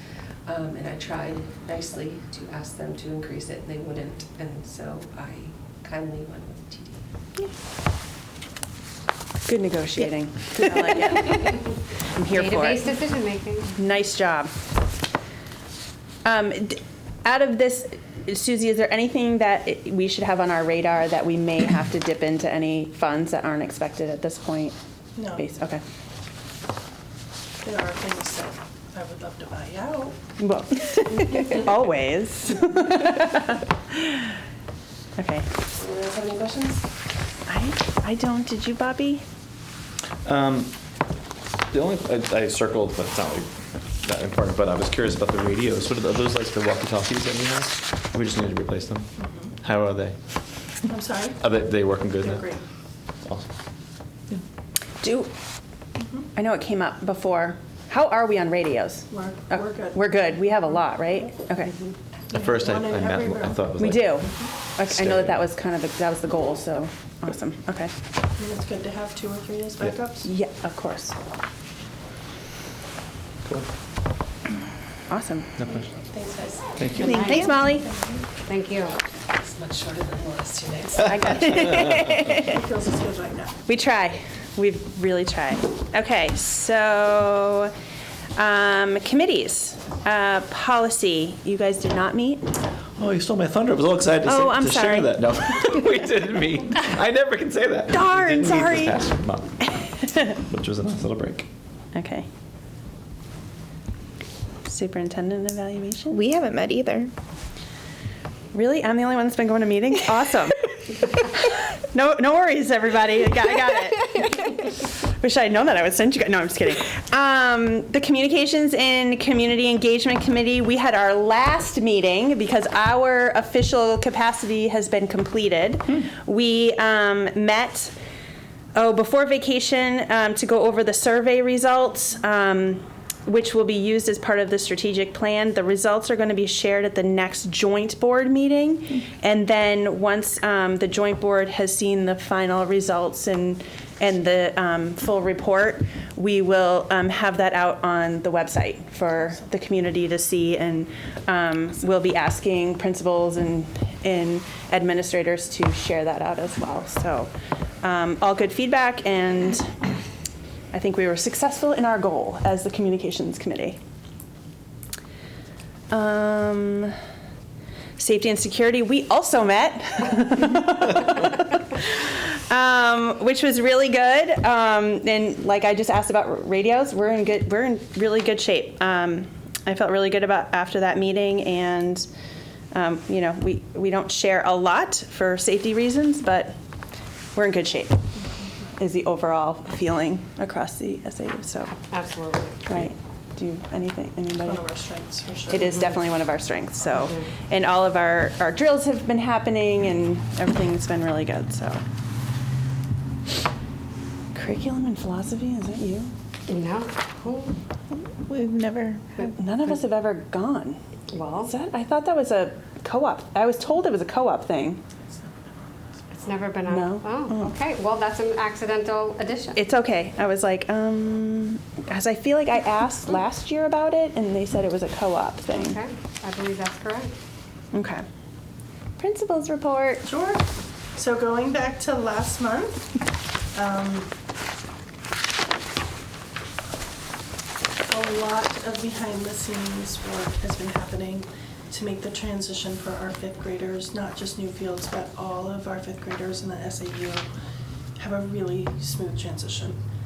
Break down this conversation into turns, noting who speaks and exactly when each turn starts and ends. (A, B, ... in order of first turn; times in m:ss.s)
0:00.5-0:07.0 A
0:09.5-0:13.0 B
0:12.2-0:13.7 C
0:13.8-0:14.5 B
0:16.2-0:24.8 B
0:25.2-0:25.4 D
0:25.3-0:25.8 B
0:27.6-0:30.3 D
0:30.4-0:34.3 B
0:35.2-0:35.5 B
0:35.8-0:36.9 A
0:37.5-0:39.2 B
0:40.2-0:40.7 E
0:41.7-0:50.2 E
0:50.9-0:51.4 D
0:51.4-0:52.5 E
0:52.2-0:52.6 D
0:53.2-0:53.5 E
0:55.0-0:55.3 B
0:56.4-1:01.8 B
0:59.1-1:00.0 D
1:02.3-1:03.7 D
1:02.3-1:04.2 E
1:03.7-1:07.9 B
1:04.8-1:05.4 E
1:08.4-1:10.3 D
1:10.2-1:11.2 B
1:15.1-1:15.6 B
1:15.7-1:17.6 A
1:16.8-1:17.3 E
1:17.0-1:17.8 B
1:17.1-1:17.7 C
1:18.5-1:18.9 C
1:19.4-1:21.4 A
1:21.0-1:22.6 B
1:22.3-1:23.6 D
1:23.7-1:27.7 B
1:28.4-1:32.5 B
1:33.0-1:39.6 E
1:34.2-1:35.2 B
1:37.9-1:39.1 B
1:39.8-1:40.4 B
1:40.5-1:41.5 E
1:41.9-1:42.3 B
1:44.6-1:46.2 B
1:46.1-1:47.1 F
1:48.5-2:07.9 B
2:08.7-2:39.7 B
2:40.7-2:43.8 B
2:45.9-2:47.0 B
2:48.0-3:02.1 B
3:02.7-3:06.5 B
3:07.4-3:08.0 B
3:08.8-3:11.8 B
3:11.9-3:12.7 C
3:12.6-3:14.7 B
3:14.4-3:15.7 D
3:15.5-3:21.8 B
3:24.3-3:26.1 B
3:26.5-3:27.5 C
3:28.3-3:29.3 F
3:29.2-3:30.8 B
3:31.1-3:31.5 C
3:31.4-3:34.8 B
3:36.1-3:39.6 C
3:36.6-3:37.5 B
3:39.6-3:45.8 B
3:45.5-3:47.1 C
3:47.7-3:48.0 B
3:49.0-3:50.1 B
3:50.1-3:50.4 D
3:51.0-3:54.1 D
3:57.9-4:07.3 D
4:08.0-4:09.8 D